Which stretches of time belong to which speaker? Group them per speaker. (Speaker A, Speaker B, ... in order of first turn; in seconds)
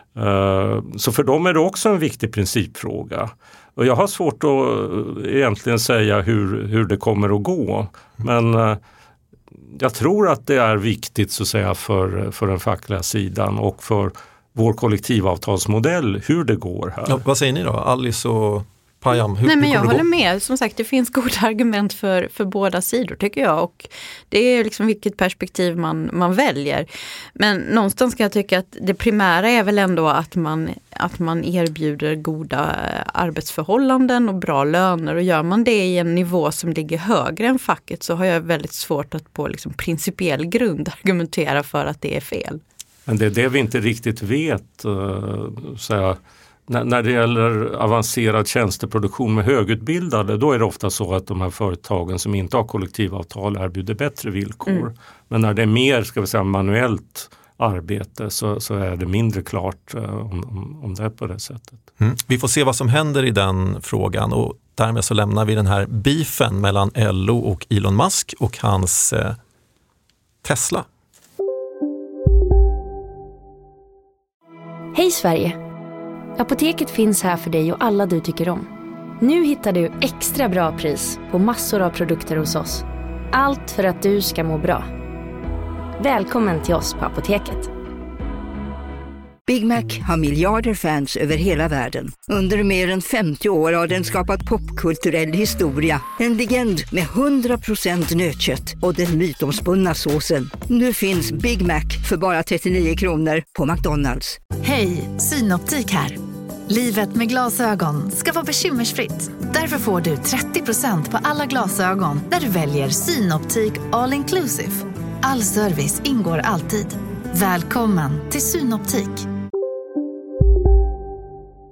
Speaker A: 0.1-8.8, 9.7-17.2, 43.1-61.8
Speaker B: 17.1-20.0, 62.0-69.4, 70.4-70.8
Speaker C: 19.4-42.6
Speaker D: 74.9-75.6, 76.4-78.7, 79.2-84.9, 86.0-87.7
Speaker E: 89.5-104.4
Speaker F: 104.6-119.3